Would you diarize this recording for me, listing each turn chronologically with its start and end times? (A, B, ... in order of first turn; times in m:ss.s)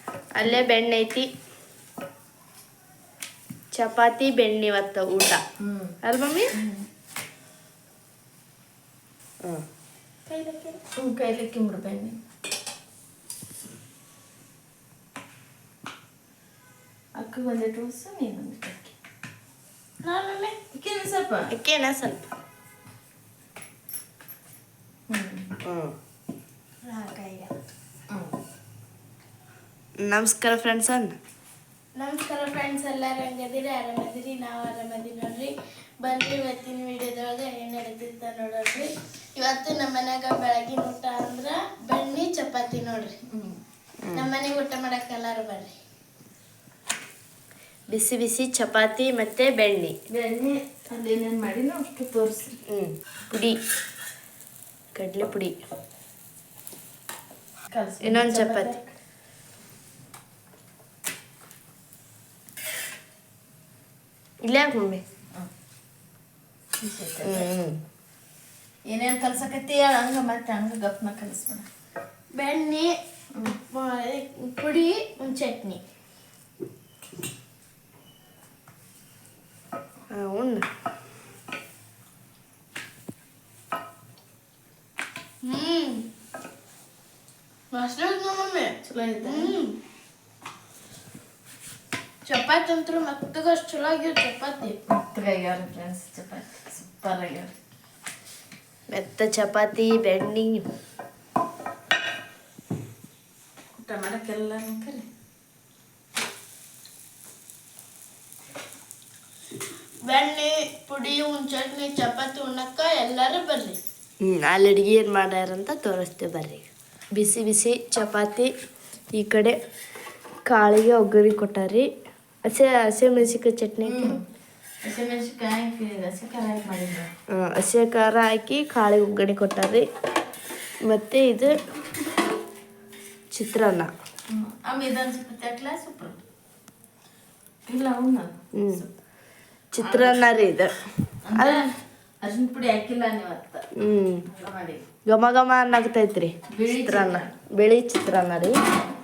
0:00.4-0:01.3 A
0:03.7-0:05.4 A
0:05.6-0:06.0 B
0:06.0-0:06.5 A
0:06.5-0:06.9 B
0:10.3-0:10.8 C
0:11.0-0:12.2 B
0:17.2-0:19.0 B
0:20.1-0:20.5 A
0:20.1-0:20.5 C
0:20.7-0:21.5 B
0:21.5-0:22.3 A
0:25.1-0:25.6 B
0:25.6-0:25.9 A
0:26.9-0:27.5 C
0:26.9-0:27.4 A
0:28.1-0:28.4 B
0:30.0-0:31.2 A
0:32.0-0:43.2 C
0:43.3-0:43.6 B
0:44.1-0:45.8 C
0:47.9-0:50.0 A
0:50.1-0:52.6 B
0:52.7-0:53.6 A
0:55.0-0:55.6 A
0:57.7-0:58.9 B
0:58.0-0:58.7 A
1:04.4-1:05.0 A
1:06.8-1:07.5 B
1:07.2-1:07.8 A
1:08.9-1:11.7 B
1:12.4-1:12.9 C
1:13.3-1:13.6 B
1:13.7-1:15.8 C
1:20.1-1:20.7 A
1:25.5-1:26.0 C
1:27.7-1:28.7 C
1:28.8-1:29.6 B
1:29.3-1:29.7 A
1:32.3-1:34.8 C
1:34.9-1:37.5 B
1:38.9-1:40.6 A
1:43.8-1:45.1 B
1:50.1-1:53.8 C
1:54.2-1:56.6 A
1:57.2-1:58.5 A
1:59.2-1:59.6 A
2:00.5-2:01.9 A
2:02.5-2:04.2 A
2:03.8-2:04.2 B
2:04.8-2:07.1 B
2:07.3-2:09.8 A
2:10.9-2:11.6 A
2:13.3-2:13.9 A
2:14.3-2:16.2 B
2:17.7-2:18.9 B
2:18.5-2:18.8 A
2:19.7-2:20.7 A
2:19.8-2:20.2 B
2:21.2-2:23.6 B
2:21.4-2:21.6 A
2:23.8-2:24.3 A
2:24.3-2:24.8 B
2:25.1-2:28.6 A
2:26.5-2:27.3 B